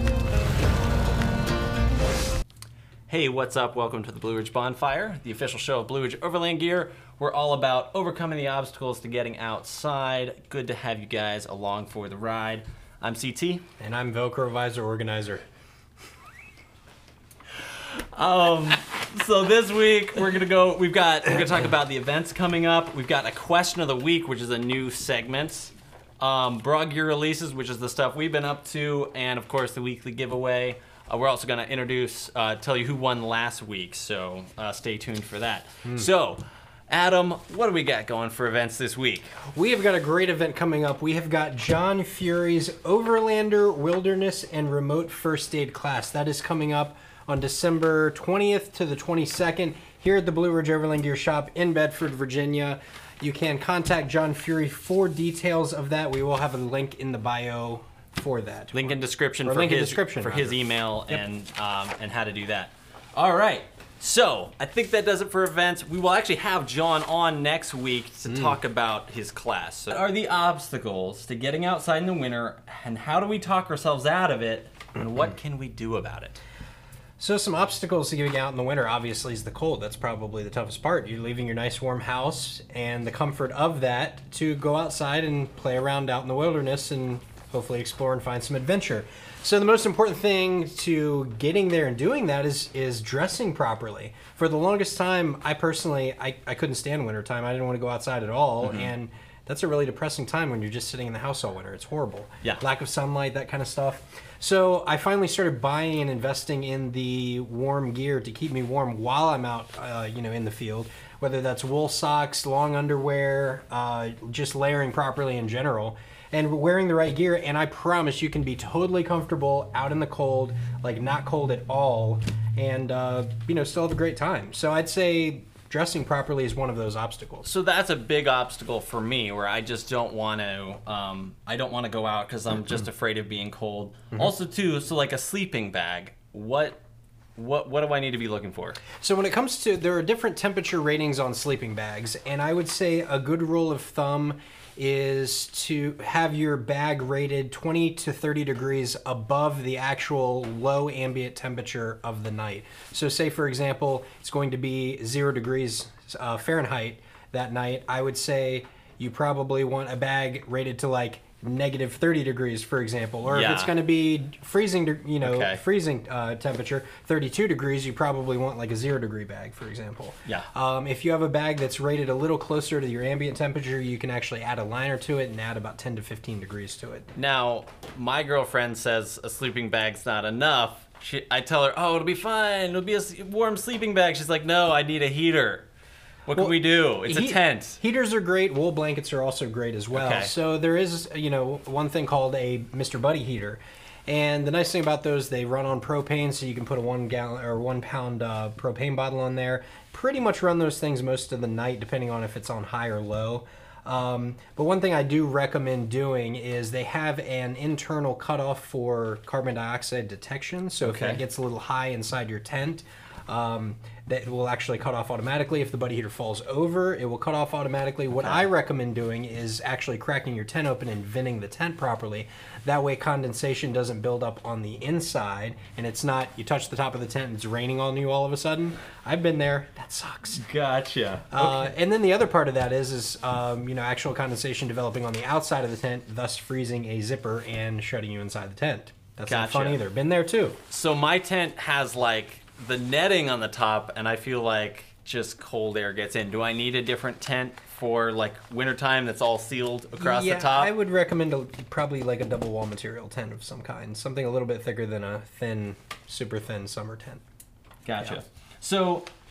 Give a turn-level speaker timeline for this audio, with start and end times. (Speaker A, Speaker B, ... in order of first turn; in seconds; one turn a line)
Speaker A: 3.1-13.7
Speaker B: 13.8-15.4
Speaker A: 17.7-39.4
Speaker B: 39.5-60.6
Speaker A: 58.7-76.4
Speaker B: 68.3-68.6
Speaker B: 77.2-127.5
Speaker A: 98.6-98.9
Speaker A: 127.4-136.8
Speaker A: 137.4-138.8
Speaker B: 139.0-177.1
Speaker A: 163.3-163.7
Speaker A: 165.2-165.6
Speaker A: 177.2-185.7
Speaker A: 186.3-187.8
Speaker B: 186.3-230.4
Speaker A: 189.9-190.3
Speaker A: 210.8-211.2
Speaker A: 230.3-231.7
Speaker B: 231.3-240.6
Speaker A: 239.3-239.8
Speaker A: 240.7-250.7
Speaker B: 250.0-257.2
Speaker A: 257.9-259.1